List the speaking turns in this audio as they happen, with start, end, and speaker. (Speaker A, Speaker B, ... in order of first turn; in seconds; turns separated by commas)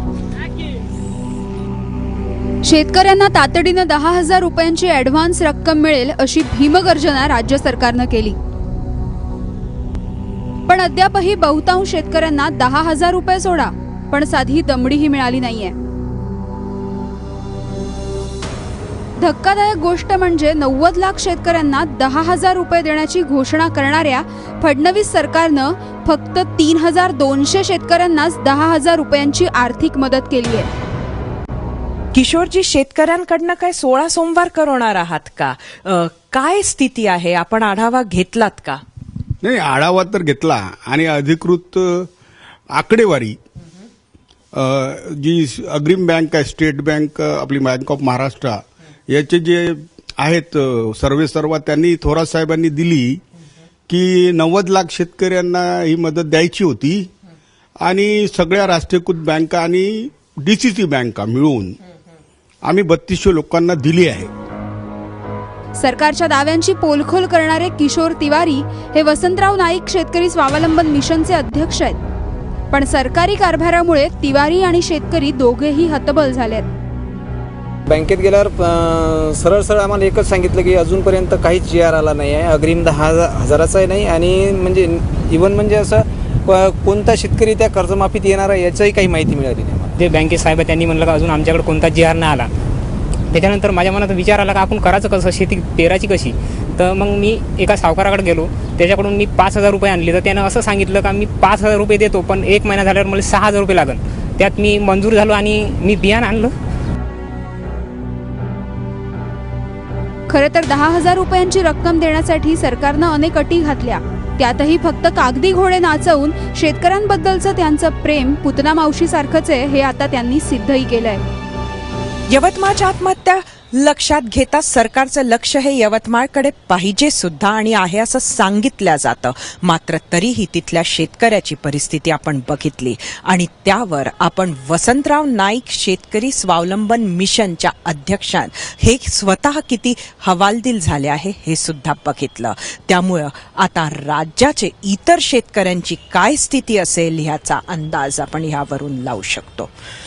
Speaker A: 2.6-8.4, Speaker A: 10.7-15.8, Speaker A: 19.2-30.7, Speaker B: 32.1-38.8, Speaker C: 39.4-42.1, Speaker C: 42.7-43.4, Speaker C: 44.5-53.2, Speaker C: 53.9-57.1, Speaker C: 57.8-61.8, Speaker C: 62.7-64.3, Speaker A: 65.8-72.0, Speaker A: 72.7-76.7, Speaker D: 77.9-89.9, Speaker E: 90.0-92.5, Speaker E: 93.3-106.5, Speaker A: 110.3-121.2, Speaker B: 122.3-149.7